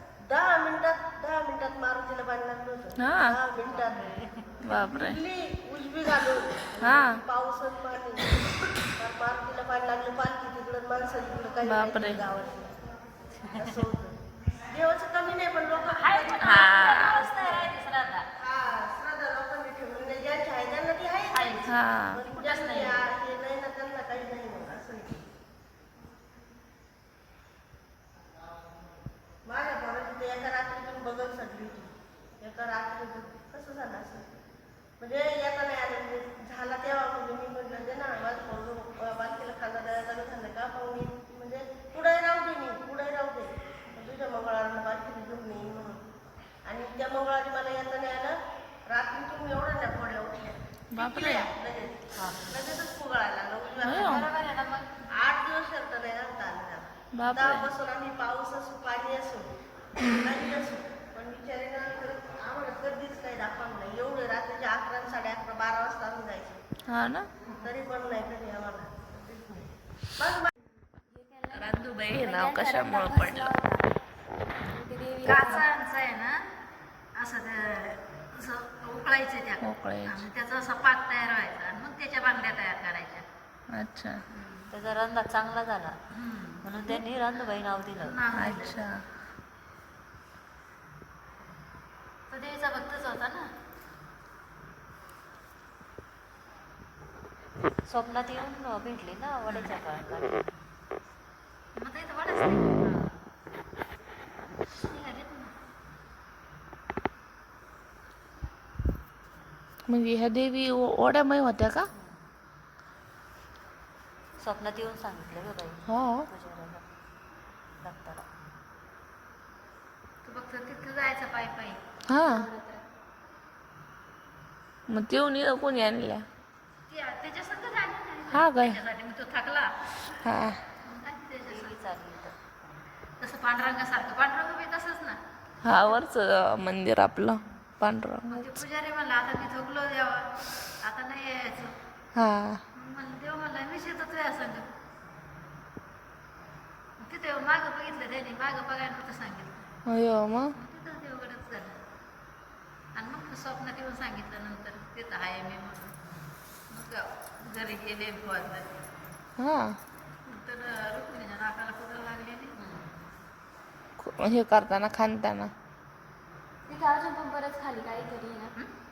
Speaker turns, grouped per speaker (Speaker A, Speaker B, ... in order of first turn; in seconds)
Speaker A: 0.2-4.1, 4.9-8.4, 9.0-12.7, 13.5-14.1, 14.7-17.7, 18.4-25.3, 29.4-34.3, 35.0-46.0, 46.6-54.3, 55.1-59.5, 60.0-66.6, 67.6-69.5, 70.2-70.5
Speaker B: 3.0-3.4, 4.6-5.2, 6.8-7.2, 11.6-12.3, 16.4-17.3, 21.6-22.2, 50.9-51.5, 53.8-54.3, 57.1-57.7, 66.9-67.3, 71.5-73.5, 75.3-75.5, 79.6-80.3, 83.7-84.2, 88.3-89.0, 109.9-111.9, 115.9-116.3, 122.1-122.5, 124.9-126.2, 128.3-128.8, 130.2-130.6, 135.6-138.6, 142.2-142.6, 149.9-150.5, 159.4-159.8, 164.0-165.5
Speaker C: 15.8-18.3, 21.3-21.8, 22.3-23.1, 53.9-54.9, 75.2-76.4, 77.2-83.2, 84.3-84.7, 86.1-87.0, 88.0-88.8, 92.3-93.5, 99.5-99.8, 101.8-103.1, 104.8-105.5, 120.2-121.8, 126.9-130.1, 130.8-132.0, 133.2-135.2, 138.3-141.7, 142.7-144.6, 147.0-149.7, 150.6-151.8, 152.9-156.0, 156.7-158.8, 160.2-162.6
Speaker D: 71.1-73.9, 74.5-75.6, 122.2-122.9, 166.7-168.5
Speaker E: 84.7-86.0, 86.6-88.2, 97.9-100.5, 111.9-112.2, 114.4-116.8, 117.8-118.2, 131.5-132.4, 162.6-162.9